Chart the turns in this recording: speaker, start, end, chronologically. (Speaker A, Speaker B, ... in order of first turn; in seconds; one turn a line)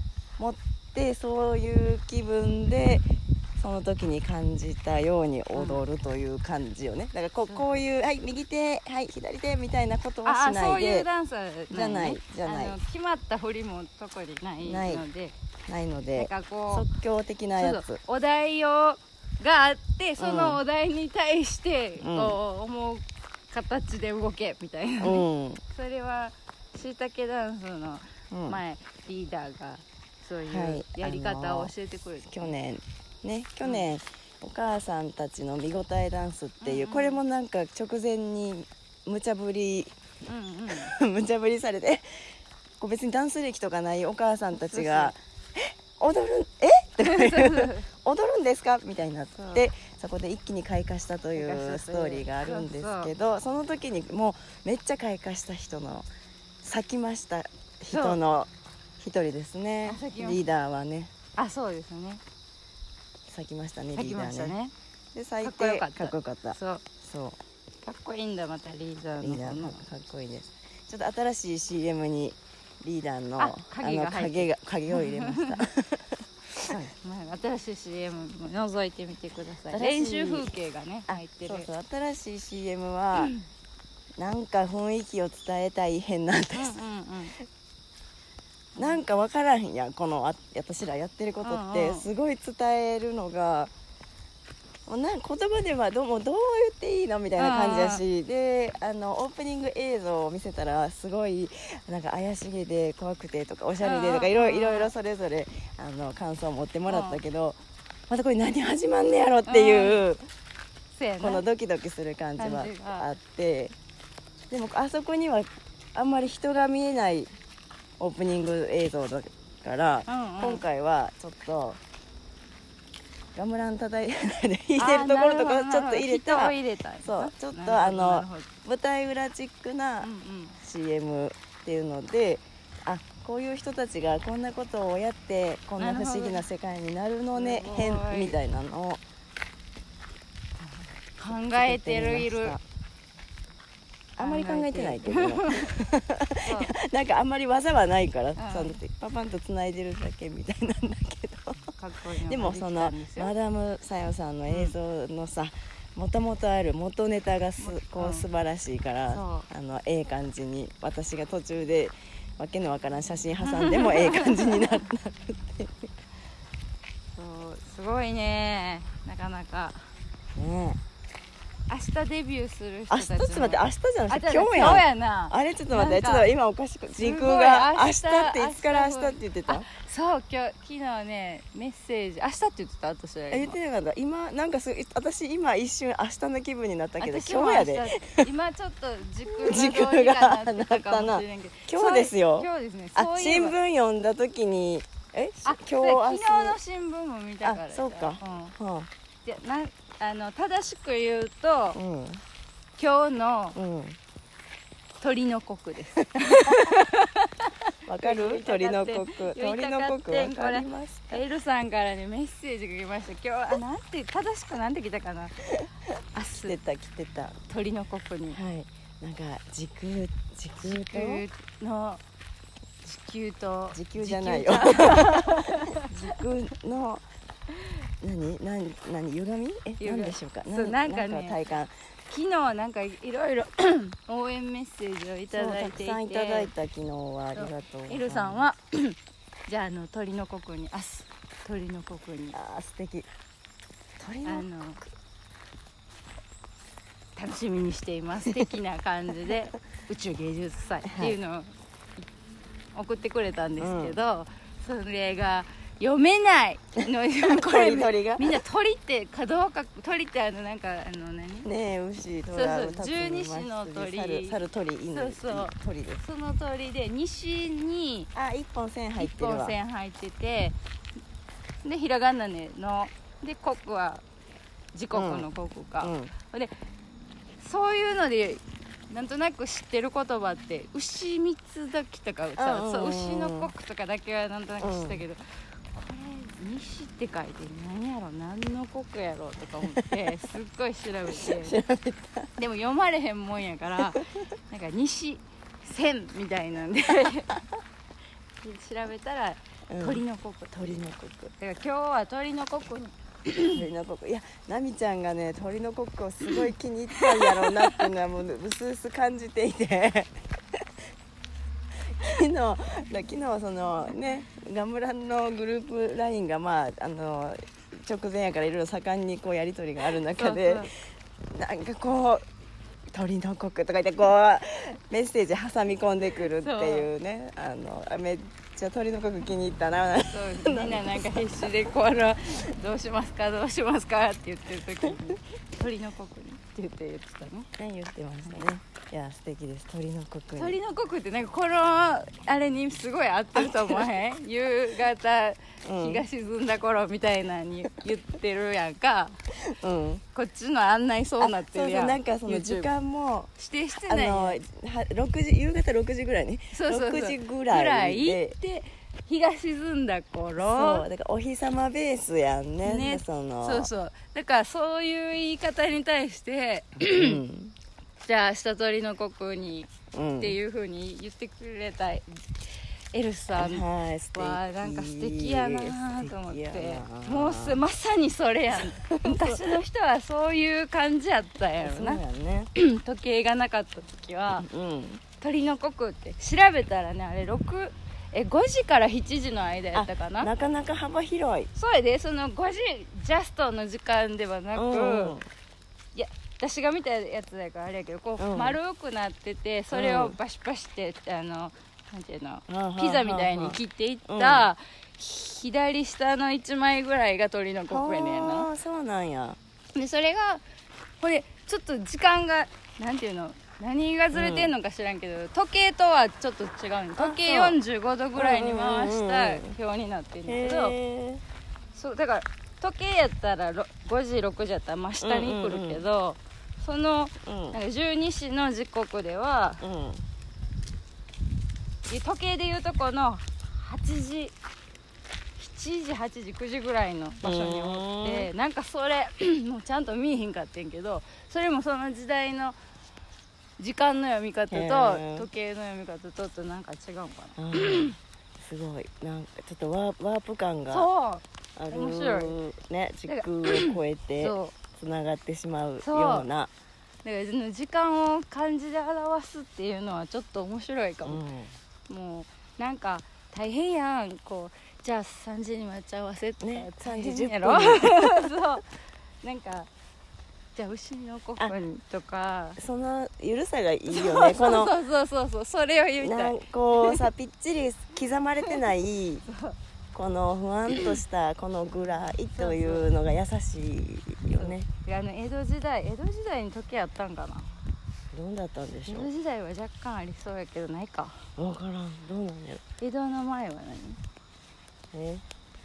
Speaker A: 0.4-11.1
Speaker B: 5.5-5.8
Speaker B: 7.5-7.8
Speaker B: 10.2-15.3
Speaker A: 11.7-12.8
Speaker A: 14.6-15.1
Speaker A: 15.7-18.0
Speaker B: 16.1-16.9
Speaker B: 17.6-32.5
Speaker A: 20.2-20.6
Speaker A: 22.0-22.4
Speaker A: 25.0-25.6
Speaker A: 28.3-28.6
Speaker A: 30.5-31.7
Speaker A: 32.3-39.9
Speaker B: 36.6-37.2
Speaker B: 40.3-40.9
Speaker A: 40.7-56.1
Speaker B: 44.5-45.1
Speaker B: 47.0-47.9
Speaker B: 49.4-49.7
Speaker B: 51.4-53.1
Speaker A: 56.6-61.1
Speaker B: 57.9-58.2
Speaker B: 59.9-60.4
Speaker B: 61.4-62.2
Speaker A: 63.3-64.6
Speaker B: 64.0-64.7
Speaker A: 65.1-67.4
Speaker B: 65.4-66.8
Speaker B: 67.8-69.8
Speaker A: 69.2-76.9
Speaker B: 73.4-75.7
Speaker B: 76.7-81.7
Speaker A: 79.7-80.5
Speaker A: 81.1-83.3
Speaker B: 83.2-83.4
Speaker A: 84.2-86.8
Speaker B: 86.5-87.4
Speaker A: 88.8-93.7
Speaker B: 91.4-92.1
Speaker A: 94.9-110.2
Speaker B: 97.4-98.0
Speaker B: 103.8-104.9
Speaker B: 106.9-107.2
Speaker B: 109.5-110.0
Speaker B: 110.9-111.5
Speaker A: 111.2-113.8
Speaker B: 112.4-113.1
Speaker A: 114.5-117.3
Speaker A: 118.0-121.8
Speaker B: 120.1-120.6
Speaker A: 123.3-139.0
Speaker B: 124.8-128.5
Speaker B: 130.0-130.6
Speaker B: 135.8-136.4
Speaker B: 137.3-138.4
Speaker B: 140.6-142.6
Speaker A: 141.5-142.6
Speaker A: 144.2-151.7
Speaker B: 144.2-145.8
Speaker B: 146.4-146.7
Speaker B: 148.4-148.8
Speaker B: 151.6-153.3
Speaker A: 152.3-165.9
Speaker B: 154.5-154.8
Speaker B: 157.6-158.3
Speaker B: 159.1-159.5
Speaker B: 163.4-164.6
Speaker B: 167.2-169.9
Speaker A: 170.4-170.8
Speaker B: 171.7-176.3
Speaker A: 172.9-179.7
Speaker B: 177.0-183.6
Speaker A: 183.3-188.3
Speaker B: 187.0-193.6
Speaker A: 189.3-196.6
Speaker B: 195.4-198.6
Speaker A: 197.4-198.9
Speaker B: 199.2-201.8
Speaker A: 201.7-202.2
Speaker B: 202.8-203.6
Speaker A: 203.6-204.0
Speaker B: 205.0-215.4
Speaker A: 206.2-206.8
Speaker A: 207.9-211.2
Speaker B: 216.1-216.6
Speaker A: 216.4-217.4
Speaker B: 217.5-218.4
Speaker A: 218.3-221.2
Speaker B: 220.6-222.0
Speaker B: 222.8-226.1
Speaker A: 223.7-227.0
Speaker A: 228.0-231.7
Speaker B: 229.8-231.4
Speaker B: 232.1-236.5
Speaker A: 235.3-238.5
Speaker B: 237.4-242.4
Speaker A: 242.3-243.1
Speaker A: 244.0-244.5
Speaker B: 244.2-244.8
Speaker B: 247.2-252.1
Speaker A: 250.8-251.2
Speaker B: 252.8-261.5
Speaker A: 253.6-254.0
Speaker A: 257.2-258.4
Speaker A: 261.4-266.0
Speaker B: 262.3-268.1
Speaker A: 268.1-269.6
Speaker B: 269.0-270.6
Speaker B: 271.6-274.0
Speaker B: 274.7-276.5
Speaker A: 274.9-275.3
Speaker A: 275.8-276.1
Speaker B: 277.4-291.6
Speaker A: 282.4-283.5
Speaker A: 284.6-285.0
Speaker A: 289.7-290.0
Speaker A: 291.1-292.3
Speaker B: 292.4-297.4
Speaker B: 298.4-300.8
Speaker A: 299.7-301.3
Speaker B: 301.4-303.6
Speaker A: 303.5-310.7
Speaker B: 307.2-307.7
Speaker A: 311.9-320.7
Speaker B: 320.1-320.7
Speaker A: 321.3-322.2
Speaker A: 322.9-331.5
Speaker B: 326.4-326.9
Speaker B: 330.1-337.5
Speaker A: 337.6-340.6
Speaker B: 340.4-349.2
Speaker A: 343.4-343.9
Speaker A: 345.6-346.0
Speaker A: 349.5-350.0
Speaker B: 350.1-352.7
Speaker A: 351.2-358.4
Speaker B: 353.4-354.4
Speaker B: 356.5-360.9
Speaker A: 360.4-363.7
Speaker B: 362.6-367.2
Speaker A: 366.8-367.6
Speaker B: 368.0-382.0
Speaker A: 369.9-370.4
Speaker A: 373.4-377.6
Speaker A: 378.6-379.5
Speaker A: 381.6-382.5
Speaker B: 382.6-384.5
Speaker A: 384.3-385.0
Speaker B: 385.2-390.3
Speaker A: 389.7-391.5
Speaker B: 391.6-395.2
Speaker A: 394.5-395.3
Speaker B: 395.9-408.5
Speaker A: 398.2-398.6
Speaker A: 399.7-400.2
Speaker A: 402.5-404.5
Speaker A: 407.7-409.4
Speaker B: 409.7-410.4
Speaker B: 411.0-420.8
Speaker A: 414.1-414.5
Speaker A: 417.0-417.6
Speaker A: 418.2-419.5
Speaker A: 420.3-421.2
Speaker B: 421.7-429.6
Speaker A: 425.0-425.8
Speaker A: 427.2-427.6
Speaker A: 429.6-430.1
Speaker B: 431.9-434.4
Speaker B: 435.4-442.6
Speaker A: 437.2-438.3
Speaker B: 443.6-448.0
Speaker A: 444.5-445.3
Speaker A: 447.4-450.9
Speaker B: 450.7-452.4
Speaker A: 451.6-456.5
Speaker B: 453.1-454.5
Speaker B: 455.8-456.3
Speaker B: 457.0-461.2
Speaker A: 461.1-461.5
Speaker B: 461.9-468.6
Speaker A: 466.4-468.4
Speaker B: 469.2-469.7
Speaker B: 470.6-472.6
Speaker A: 472.6-474.8
Speaker B: 473.9-477.1
Speaker A: 476.0-479.2
Speaker B: 479.3-479.6
Speaker A: 479.9-484.7
Speaker B: 482.3-482.9
Speaker B: 484.4-487.6
Speaker A: 488.1-489.1
Speaker B: 488.9-491.2
Speaker A: 491.4-492.6
Speaker B: 492.8-494.0
Speaker A: 494.9-495.2